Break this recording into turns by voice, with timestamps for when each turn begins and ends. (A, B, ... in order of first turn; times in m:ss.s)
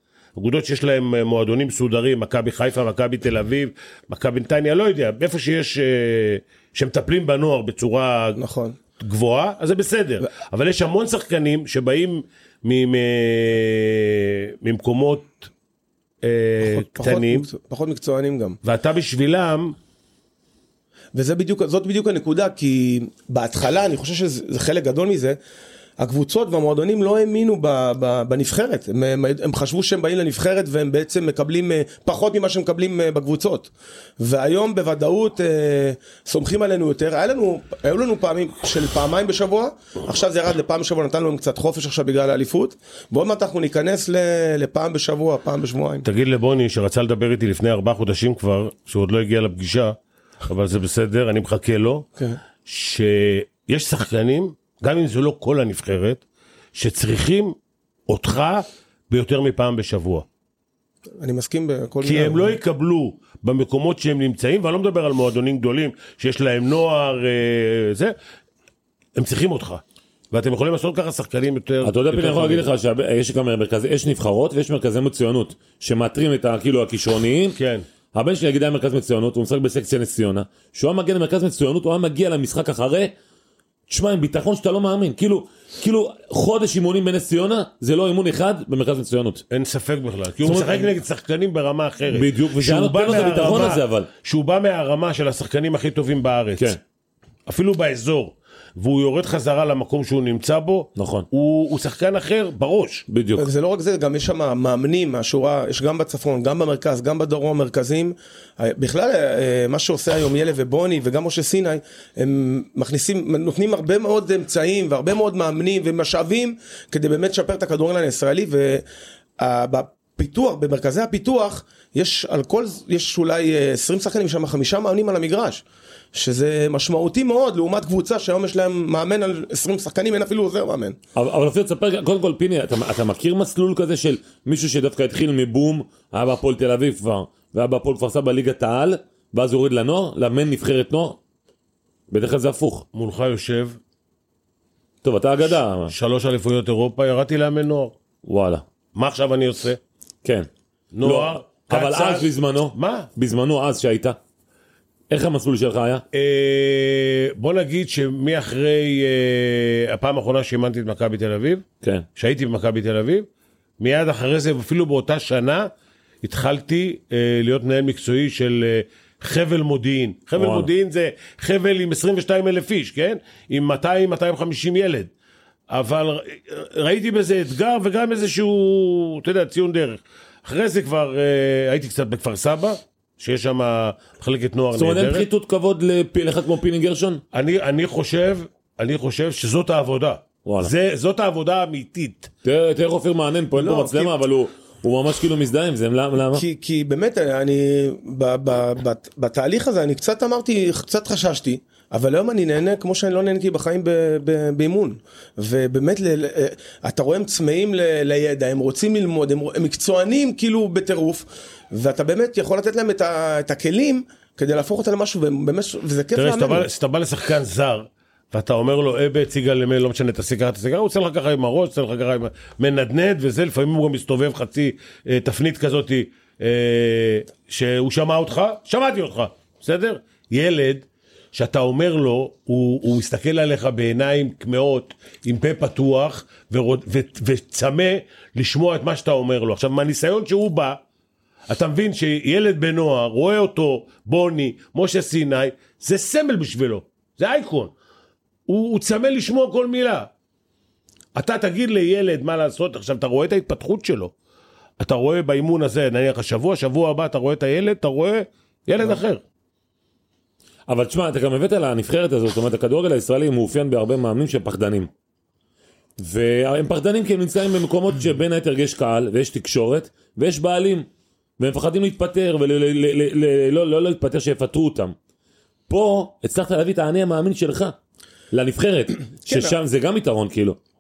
0:00.4-0:08.4 A
0:08.4-0:08.8 B
0:09.0-0:15.5 A
0:16.2-0:17.5 A
0:16.6-0:18.6 B
0:18.6-0:19.7 A
0:21.1-0:25.4 B
0:26.0-0:46.0 B
0:46.0-0:50.0 A
0:50.5-0:52.0 A
0:52.6-0:56.2 A
0:56.7-0:57.6 A
0:58.1-1:00.2 A
1:01.2-1:02.6 B
1:02.0-1:08.1 A
1:09.2-1:12.6 A
1:11.8-1:17.6 C
1:17.6-1:17.8 A
1:18.1-1:23.1 C
1:23.9-1:29.4 C
1:29.5-1:36.8 A
1:30.4-1:30.9 C
1:32.1-1:34.1 C
1:37.5-1:43.0 A
1:41.0-1:41.2 C
1:43.1-1:43.5 C
1:43.4-1:58.8 B
1:59.4-2:11.0 B
2:11.1-2:21.2 C
2:22.1-2:22.8 C
2:22.9-2:23.8 A
2:25.0-2:25.9 C
2:25.9-2:27.9 A
2:28.2-2:28.6 C
2:28.9-2:29.8 A
2:30.9-2:33.1 A
2:31.0-2:34.2 C
2:35.1-2:36.0 C
2:36.1-2:41.6 A
2:42.2-2:43.2 A
2:43.8-2:45.7 A
2:46.2-2:55.1 A
2:50.3-2:50.7 C
2:55.7-3:05.2 A
3:04.7-3:07.2 C
3:07.3-3:12.3 A
3:10.4-3:10.7 C
3:12.4-3:16.4 C
3:13.5-3:14.2 B
3:16.3-3:36.7 B
3:36.2-4:00.8 A
4:01.5-4:07.7 A
4:08.5-4:10.1 A
4:11.1-4:14.1 A
4:14.8-4:19.2 A
4:20.7-4:24.9 C
4:26.0-4:30.9 C
4:31.4-4:34.9 C
4:35.7-4:37.7 C
4:38.3-4:40.6 C
4:39.2-4:39.6 B